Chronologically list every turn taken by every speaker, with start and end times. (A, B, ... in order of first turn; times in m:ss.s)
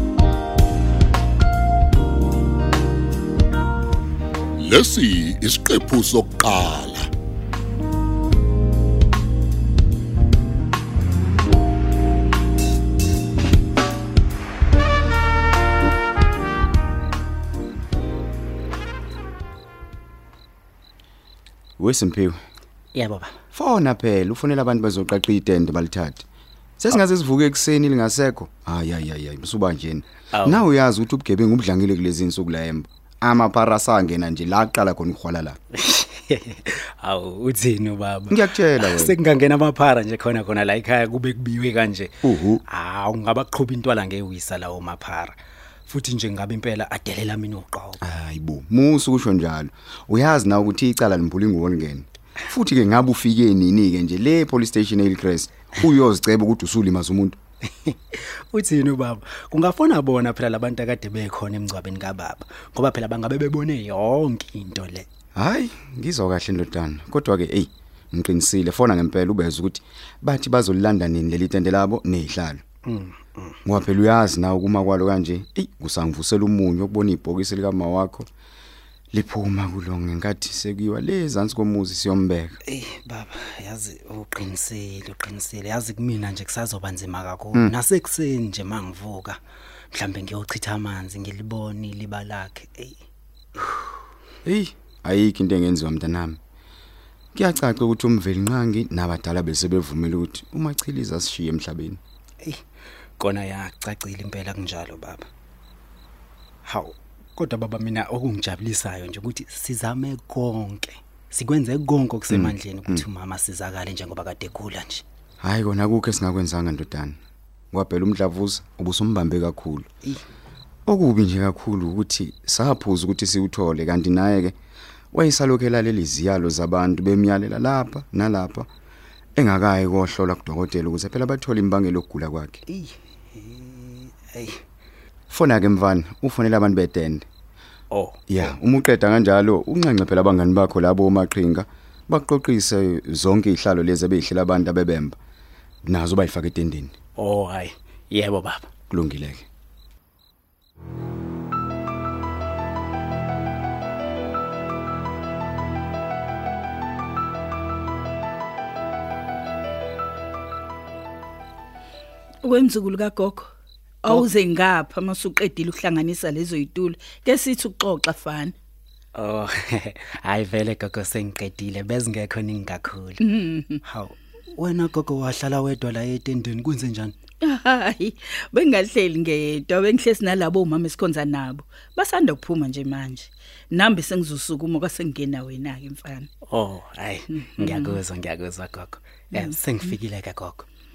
0:04.6-0:07.1 A
0:21.8-0:22.4 B
0:22.9-0:23.4 C
0:23.5-0:26.2 B
0:26.8-0:35.6 B
0:30.3-0:30.6 C
0:35.7-0:45.4 C
0:38.3-0:39.2 B
0:42.2-0:42.6 B
0:45.9-0:48.0 C
0:48.0-0:57.4 B
0:57.7-1:05.1 C
1:05.4-1:12.6 B
1:12.8-1:13.6 C
1:13.6-1:18.3 B
1:19.1-1:22.6 B
1:22.7-1:29.4 C
1:29.9-1:33.0 C
1:34.4-1:36.4 B
1:37.3-1:42.0 B
1:43.2-1:45.3 C
1:46.6-1:55.0 C
1:52.3-1:53.0 B
1:55.4-1:57.2 B
1:57.7-1:59.9 B
2:00.9-2:04.6 B
2:05.1-2:08.7 B
2:09.3-2:12.6 B
2:12.7-2:14.6 C
2:15.3-2:17.2 B
2:17.9-2:18.5 C
2:18.3-2:25.2 B
2:25.8-2:26.9 B
2:27.2-2:28.7 C
2:28.9-2:29.5 B
2:42.4-2:43.5 D
2:44.0-2:48.5 D
2:49.2-2:53.3 C
2:53.2-2:53.8 D
2:53.8-2:57.2 C
2:57.4-3:06.3 D
3:06.5-3:10.7 C
3:07.5-3:08.0 D